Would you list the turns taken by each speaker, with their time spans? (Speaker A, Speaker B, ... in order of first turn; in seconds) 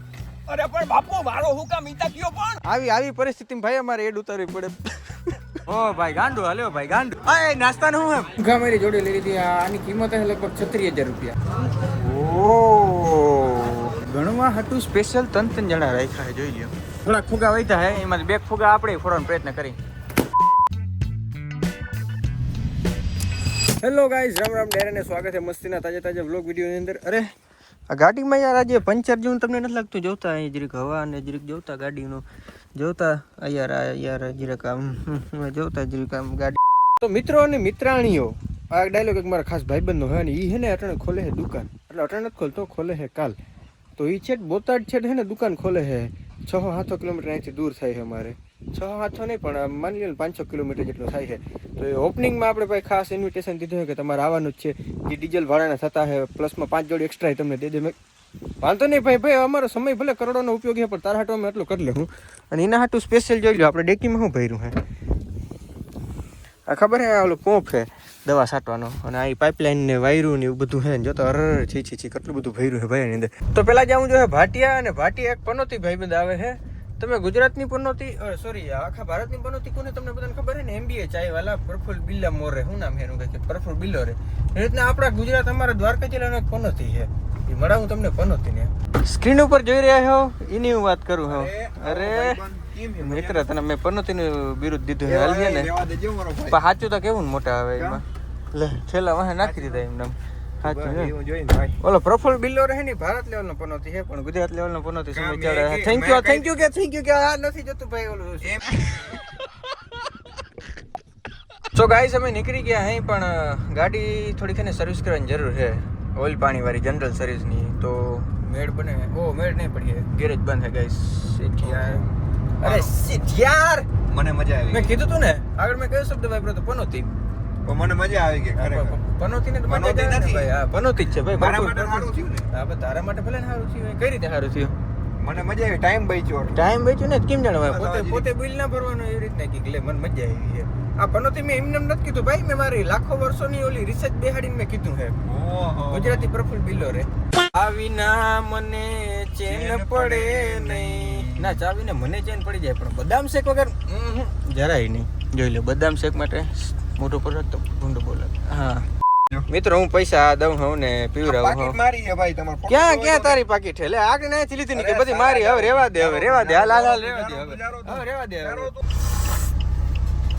Speaker A: 0.5-19.8, 23.8-27.3, 27.9-32.2, 32.8-43.4, 44.0-58.0, 58.6-64.8, 66.7-92.4, 93.0-95.7, 96.5-101.1, 101.8-109.5, 111.7-122.0, 122.6-123.9, 124.7-127.1, 128.6-134.8, 136.5-145.2, 145.9-158.9, 159.5-161.8, 162.7-168.7
Speaker B: 91.3-93.5, 95.0-96.6, 97.8-98.0, 99.4-99.8, 100.6-101.8, 105.1-106.5, 108.5-108.8, 121.6-122.1, 122.6-122.9, 124.1-125.0, 127.6-129.0, 129.7-130.5, 131.3-132.5, 135.2-136.6, 137.6-138.3, 145.2-146.3, 149.5-151.6, 161.2-163.4, 164.7-168.8